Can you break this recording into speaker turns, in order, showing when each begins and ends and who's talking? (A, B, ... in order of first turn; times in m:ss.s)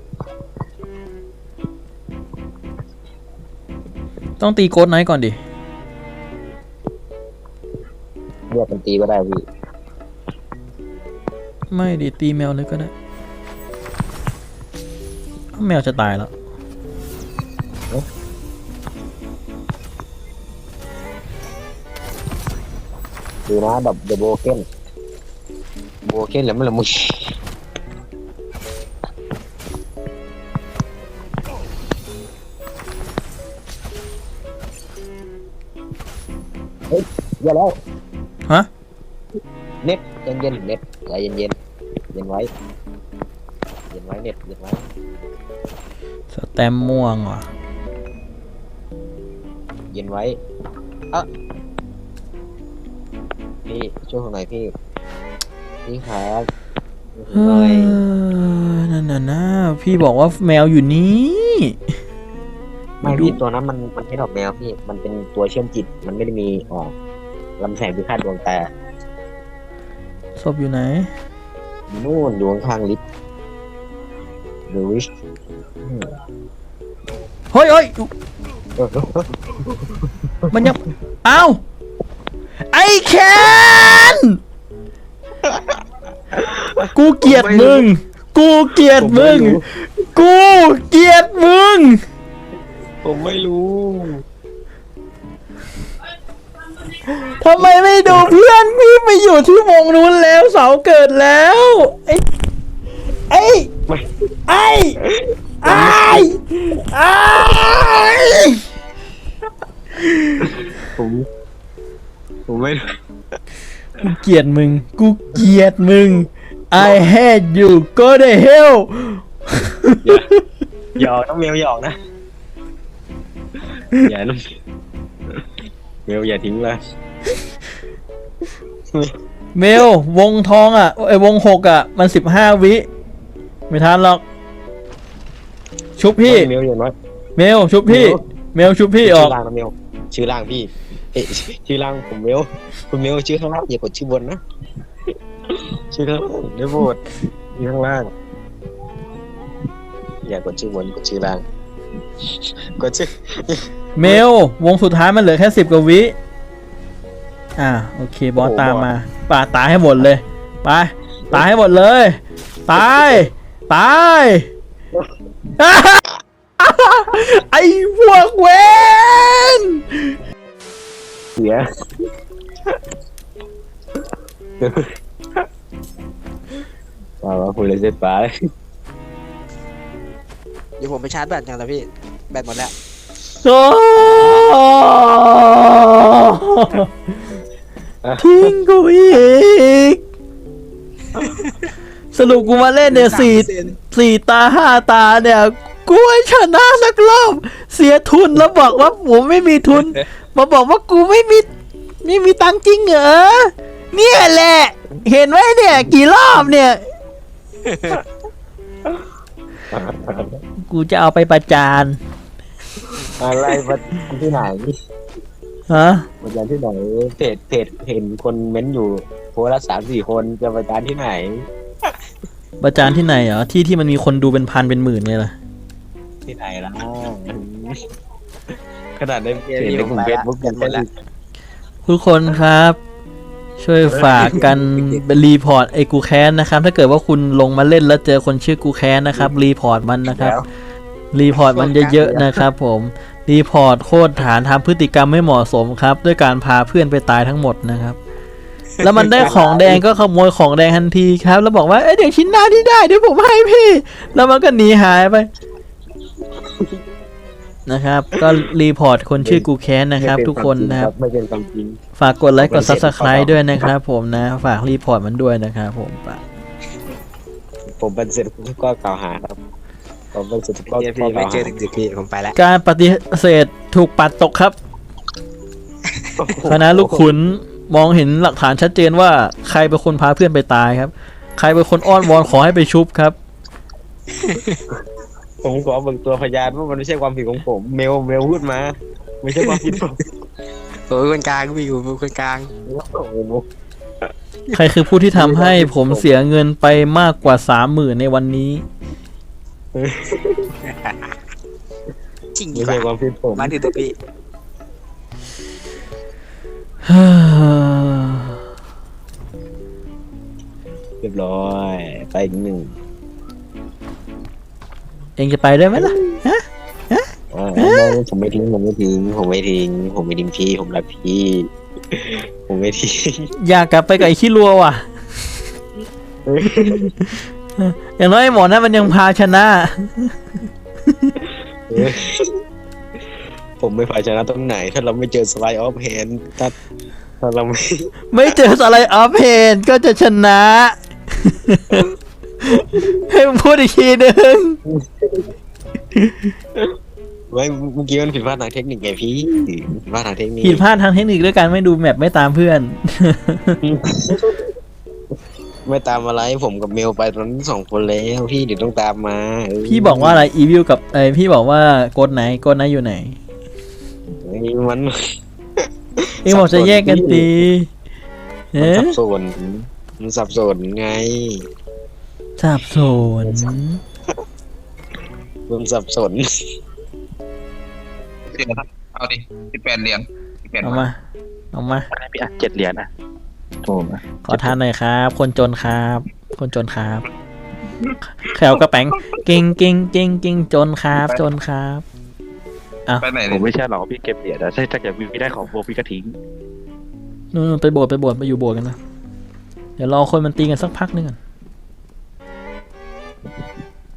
0:04.4-0:05.4 A
0:08.5-0:09.4 B
0:11.7-0:12.9 A
0:15.5-0:16.3 A
0:23.5-0:24.6 B
0:26.0-0:27.3 B
0:36.9-0:37.7 B
0:39.8-0:41.5 B
0:42.1-0:42.5 B
0:43.9-0:44.9 B
0:46.3-0:47.5 A
0:49.9-0:50.4 B
0:53.6-0:54.7 B
0:55.8-0:56.5 B
0:57.2-0:58.0 B
0:57.3-1:01.8 A
1:03.0-1:06.9 B
1:03.0-1:03.4 A
1:07.6-1:08.7 B
1:10.4-1:11.1 A
1:11.9-1:13.0 B
1:14.7-1:15.0 B
1:17.5-1:18.1 A
1:18.8-1:19.8 B
1:20.5-1:20.8 B
1:20.5-1:21.6 A
1:22.7-1:24.4 A
1:26.3-1:27.9 B
1:26.9-1:32.0 A
1:28.9-1:29.6 B
1:33.0-1:34.2 B
1:37.1-1:42.2 A
1:43.3-1:43.7 A
1:44.5-1:45.0 A
1:45.0-1:46.3 B
1:45.6-1:48.6 A
1:50.0-1:50.4 A
1:50.4-1:51.2 B
1:52.5-1:52.8 B
1:54.0-2:00.3 A
2:01.0-2:02.0 B
2:04.0-2:04.4 B
2:06.0-2:06.8 B
2:09.5-2:12.8 A
2:13.7-2:14.2 A
2:16.0-2:16.5 A
2:16.2-2:16.9 B
2:17.4-2:19.3 A
2:17.8-2:18.2 B
2:19.0-2:24.4 B
2:25.5-2:27.0 B
2:27.5-2:28.1 B
2:30.2-2:31.4 B
2:32.4-2:34.2 B
2:34.0-2:36.1 A
2:37.6-2:44.5 A
2:38.4-2:38.9 B
2:45.6-2:46.0 A
2:46.6-2:50.1 A
2:51.4-2:51.7 B
2:54.6-2:54.8 B
2:57.2-2:58.3 B
3:00.8-3:02.7 C
3:03.4-3:06.9 A
3:08.0-3:08.5 B
3:08.2-3:10.0 A
3:12.1-3:21.5 A
3:13.0-3:13.7 C
3:22.0-3:26.8 A
3:27.6-3:28.0 C
3:29.7-3:30.4 B
3:30.6-3:32.0 A
3:33.0-3:34.7 B
3:35.7-3:36.0 A
3:36.2-3:41.4 B
3:42.6-3:45.4 A
3:46.2-3:47.8 B
3:49.0-3:50.9 B
3:49.4-3:50.8 C
3:51.8-3:52.8 A
3:53.6-4:00.4 A
3:54.0-3:54.5 B
3:54.0-3:55.0 C
4:00.0-4:00.4 B
4:01.1-4:08.0 A
4:01.3-4:02.3 C
4:08.8-4:15.3 A
4:09.1-4:09.9 B
4:17.7-4:20.9 A
4:19.2-4:19.5 B
4:20.0-4:21.8 B
4:22.0-4:26.2 A
4:22.4-4:23.4 B
4:27.7-4:29.4 B
4:30.1-4:31.5 B
4:30.7-4:32.3 C
4:32.4-4:34.6 A
4:36.2-4:37.1 B
4:36.5-4:43.2 A
4:44.1-4:44.6 C
4:45.4-4:50.0 B
4:49.5-4:49.7 C
4:50.9-4:52.5 C
4:52.7-4:53.4 B
4:54.5-4:58.6 A
4:55.1-4:56.1 B
4:59.7-5:00.5 B
5:00.6-5:01.2 C
5:02.3-5:04.0 C
5:02.5-5:03.6 B
5:06.8-5:08.4 A
5:11.0-5:12.8 B
5:15.2-5:17.0 A
5:15.8-5:16.0 B
5:17.3-5:23.3 B
5:17.6-5:17.9 A
5:23.4-5:24.8 A
5:26.2-5:26.9 B
5:26.8-5:30.2 A
5:31.7-5:32.3 B
5:33.6-5:36.5 B
5:37.2-5:38.3 B
5:38.1-5:41.9 A
5:42.4-5:44.6 A
5:45.9-5:46.3 A
5:47.3-5:50.6 B
5:50.4-5:53.6 A
5:53.6-5:54.4 B
5:55.6-6:00.3 B
5:59.7-6:03.2 A
6:04.2-6:04.9 B
6:06.2-6:07.4 B
6:06.2-6:07.7 A
6:08.5-6:08.9 A
6:08.6-6:11.4 B
6:12.4-6:13.8 A
6:13.2-6:13.5 B
6:15.5-6:16.2 B
6:18.3-6:20.9 D
6:20.6-6:20.9 A
6:21.5-6:21.9 A
6:21.9-6:22.9 E
6:23.6-6:24.6 E
6:24.2-6:27.1 A
6:28.1-6:31.8 A
6:33.0-6:33.5 D
6:33.3-6:36.1 E
6:37.3-6:38.8 A
6:39.8-6:41.2 A